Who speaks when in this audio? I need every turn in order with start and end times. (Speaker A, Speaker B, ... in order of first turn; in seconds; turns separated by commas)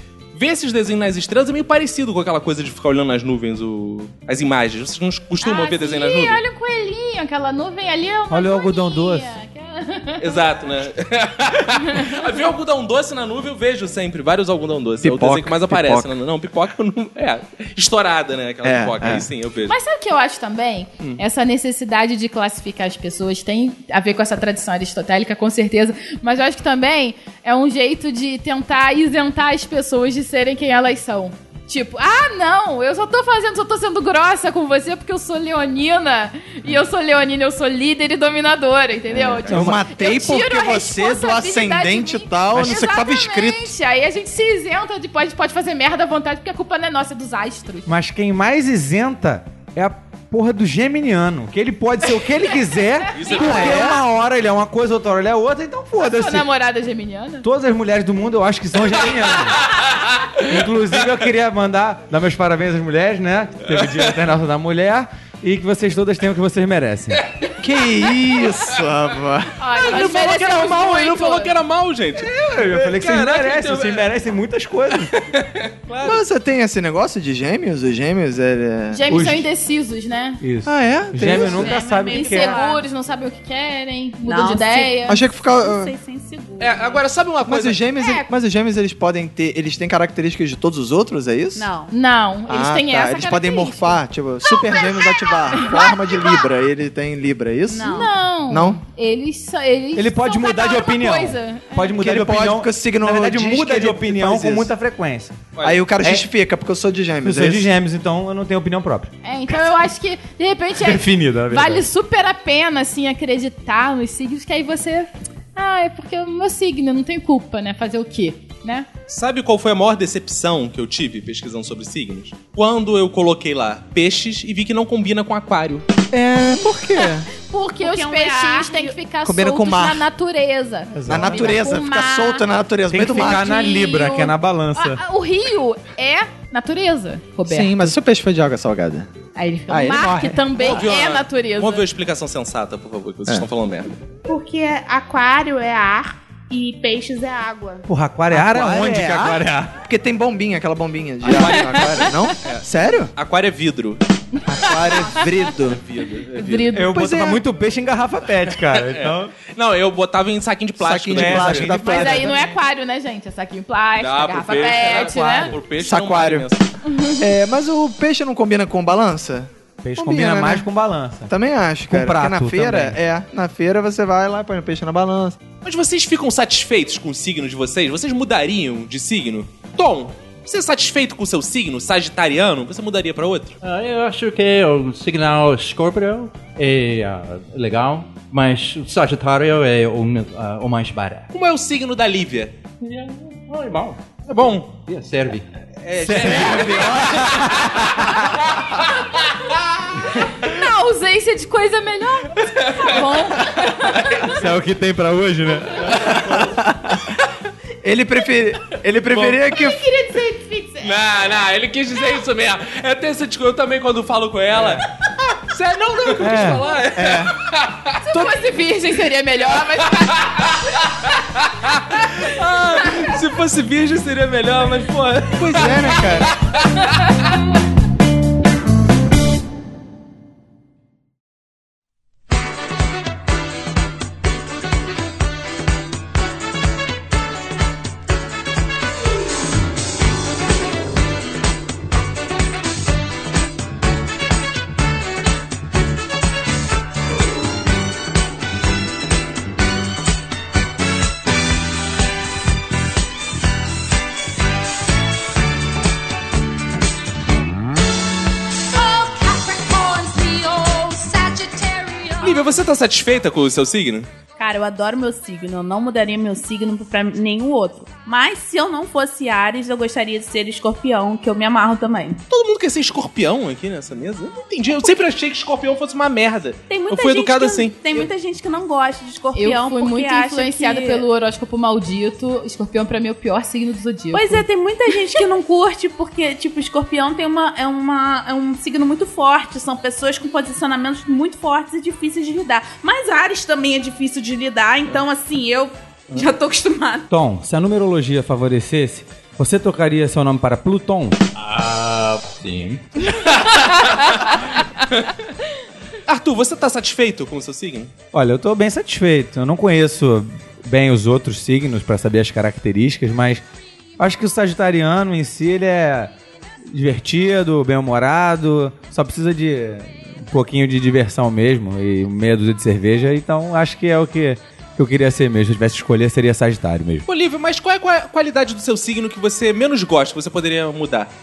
Speaker A: 0.3-6.4, Speaker B: 5.4-10.4, Speaker C: 8.3-9.3, Speaker A: 10.2-19.7, Speaker B: 11.8-12.2, Speaker D: 15.0-16.1, Speaker D: 18.6-19.2, Speaker B: 19.7-47.9, Speaker D: 39.1-43.7, Speaker C: 39.5-39.8, Speaker C: 47.9-56.5, Speaker A: 53.1-54.0, Speaker B: 53.2-54.0, Speaker B: 56.0-57.5, Speaker C: 57.4-59.7, Speaker C: 60.4-67.2, Speaker D: 67.6-69.5, Speaker B: 69.6-71.5, Speaker A: 69.7-74.1, Speaker C: 72.2-75.1, Speaker A: 75.3-76.2, Speaker D: 76.0-79.2, Speaker B: 78.9-80.4, Speaker C: 79.1-79.5, Speaker C: 80.4-82.5, Speaker D: 80.6-81.8, Speaker E: 81.2-82.8, Speaker B: 82.0-85.2, Speaker E: 84.2-87.0, Speaker D: 85.0-85.9, Speaker A: 86.6-87.8, Speaker D: 87.4-91.7, Speaker B: 88.0-88.3, Speaker E: 91.5-91.9, Speaker B: 91.9-94.0, Speaker D: 92.5-98.8, Speaker B: 95.5-96.3, Speaker E: 97.7-98.1, Speaker B: 97.9-101.9, Speaker C: 100.0-105.4, Speaker D: 102.0-104.7, Speaker A: 105.5-105.8, Speaker D: 105.6-107.7, Speaker C: 107.2-109.1, Speaker B: 109.2-118.9, Speaker C: 110.8-111.8, Speaker A: 119.1-125.8, Speaker D: 126.1-127.3, Speaker B: 127.4-132.5, Speaker E: 127.8-129.0, Speaker D: 129.2-130.1, Speaker C: 130.9-131.6, Speaker D: 131.1-133.5, Speaker C: 132.9-135.0, Speaker B: 133.1-137.9, Speaker D: 137.4-139.1, Speaker B: 139.3-141.8, Speaker D: 139.7-140.8, Speaker A: 140.6-143.9, Speaker E: 144.3-147.8, Speaker C: 147.9-149.7, Speaker D: 148.3-153.1, Speaker A: 151.2-154.0, Speaker B: 151.3-152.3, Speaker D: 154.5-155.8, Speaker B: 154.6-155.2, Speaker A: 155.5-156.8, Speaker B: 156.3-156.9, Speaker C: 156.7-159.3, Speaker D: 156.9-157.4, Speaker A: 158.6-161.7, Speaker D: 160.8-162.4, Speaker C: 161.1-162.4, Speaker B: 161.7-165.5, Speaker A: 164.0-166.7, Speaker C: 164.6-165.6, Speaker D: 165.8-166.5, Speaker B: 166.9-167.2, Speaker D: 167.2-170.7, Speaker C: 169.8-171.3, Speaker D: 171.3-175.4, Speaker C: 171.9-173.0, Speaker A: 175.6-183.6, Speaker F: 183.6-191.3, Speaker A: 191.3-192.6, Speaker F: 192.8-194.2, Speaker A: 194.3-194.7, Speaker F: 194.8-195.4, Speaker A: 195.8-197.9, Speaker C: 195.9-198.2, Speaker D: 196.1-197.2, Speaker B: 200.1-204.3, Speaker A: 202.6-203.0, Speaker A: 203.8-204.2, Speaker C: 204.2-206.1, Speaker D: 206.3-206.9, Speaker D: 207.8-209.8, Speaker A: 209.1-209.4, Speaker B: 209.5-210.9, Speaker A: 210.8-214.9, Speaker A: 215.5-218.0, Speaker C: 216.2-216.6, Speaker D: 216.3-217.3, Speaker B: 218.0-220.8, Speaker A: 220.0-227.0, Speaker D: 225.3-226.3, Speaker B: 226.9-227.2, Speaker E: 259.8-261.2, Speaker A: 262.2-264.1, Speaker E: 264.4-272.2, Speaker A: 272.3-277.8, Speaker E: 276.7-281.1, Speaker B: 279.3-284.4, Speaker E: 284.1-297.1, Speaker C: 297.1-301.2, Speaker F: 301.4-302.8, Speaker A: 303.3-304.2, Speaker A: 306.0-307.9, Speaker C: 308.1-313.4, Speaker C: 314.0-316.1, Speaker C: 316.7-327.0, Speaker A: 327.1-331.1